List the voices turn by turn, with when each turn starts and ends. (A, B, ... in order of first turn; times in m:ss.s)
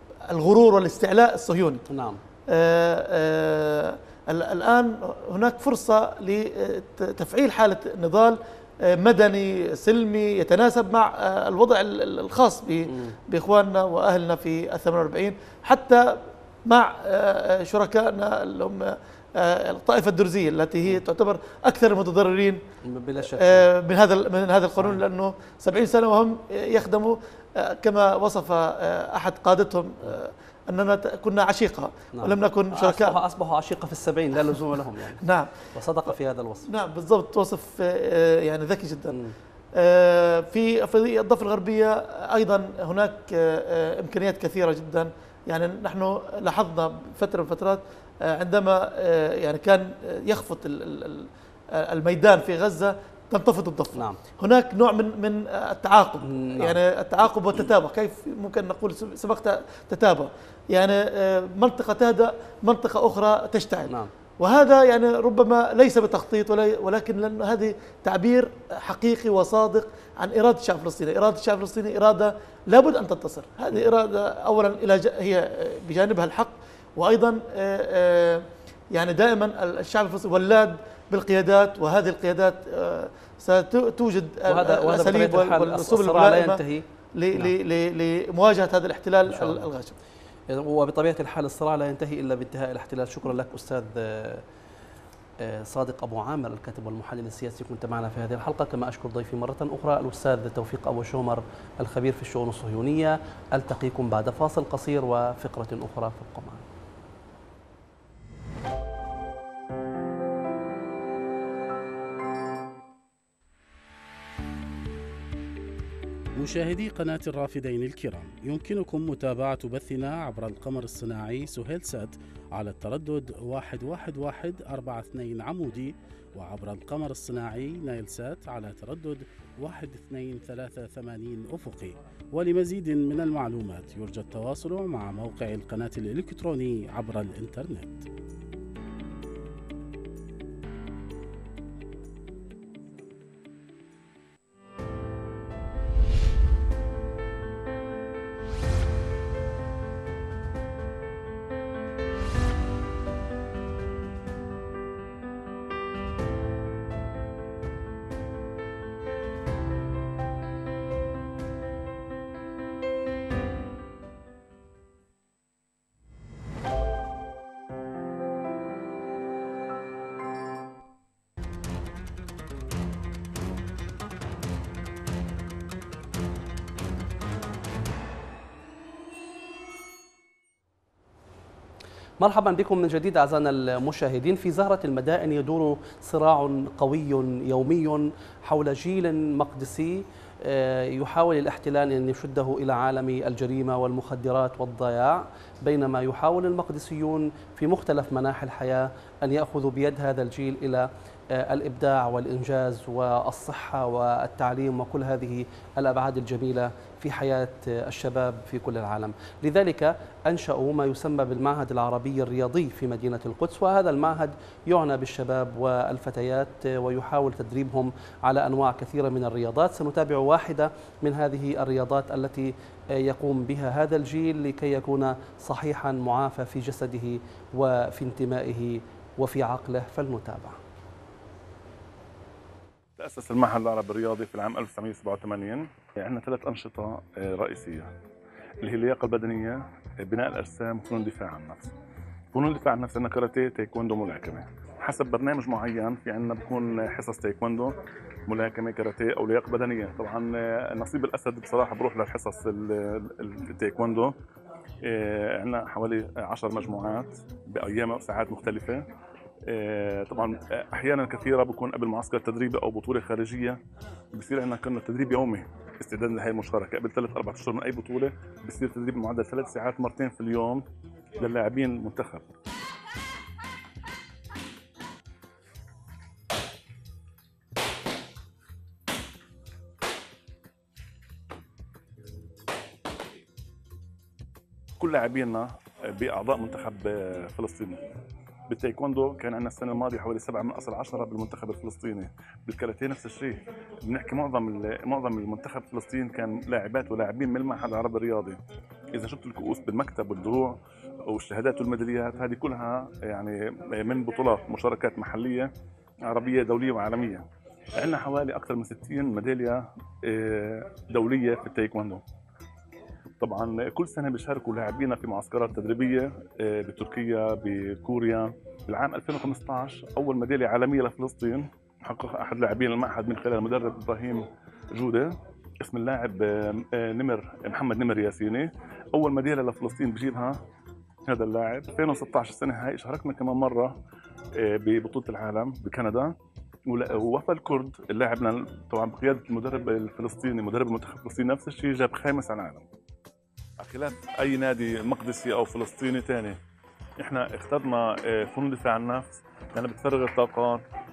0:00.3-0:01.8 A
0:01.9-0:02.2 B
0:02.5-0:22.6 A
0:12.9-0:13.2 B
0:22.8-0:23.7 B
0:23.2-0:33.2 A
0:32.1-0:35.2 B
0:35.2-0:36.1 A
0:35.7-0:36.7 B
0:36.7-0:39.2 A
0:39.8-1:26.6 A
0:54.0-0:54.2 B
0:56.3-0:56.8 B
1:24.5-1:27.5 B
1:27.2-1:30.0 A
1:29.3-1:29.7 B
1:30.5-1:34.4 B
1:35.4-1:46.7 B
1:56.4-2:18.0 C
3:02.2-3:50.6 B
3:53.0-3:57.9 D
3:58.6-4:01.7 D
4:02.3-4:07.8 D
4:08.3-4:14.1 D
4:14.8-4:18.9 D
4:19.5-4:23.6 D
4:24.1-4:30.6 D
4:31.2-4:32.3 D
4:44.8-4:47.9 D
4:48.5-4:58.4 D
4:58.9-5:00.6 D
5:01.1-5:05.5 D
5:06.1-5:12.0 D
5:13.2-5:30.4 D
5:31.1-5:33.8 D
5:34.4-5:36.2 D
5:36.7-5:42.7 D
5:43.6-5:46.4 D
5:47.0-5:50.6 D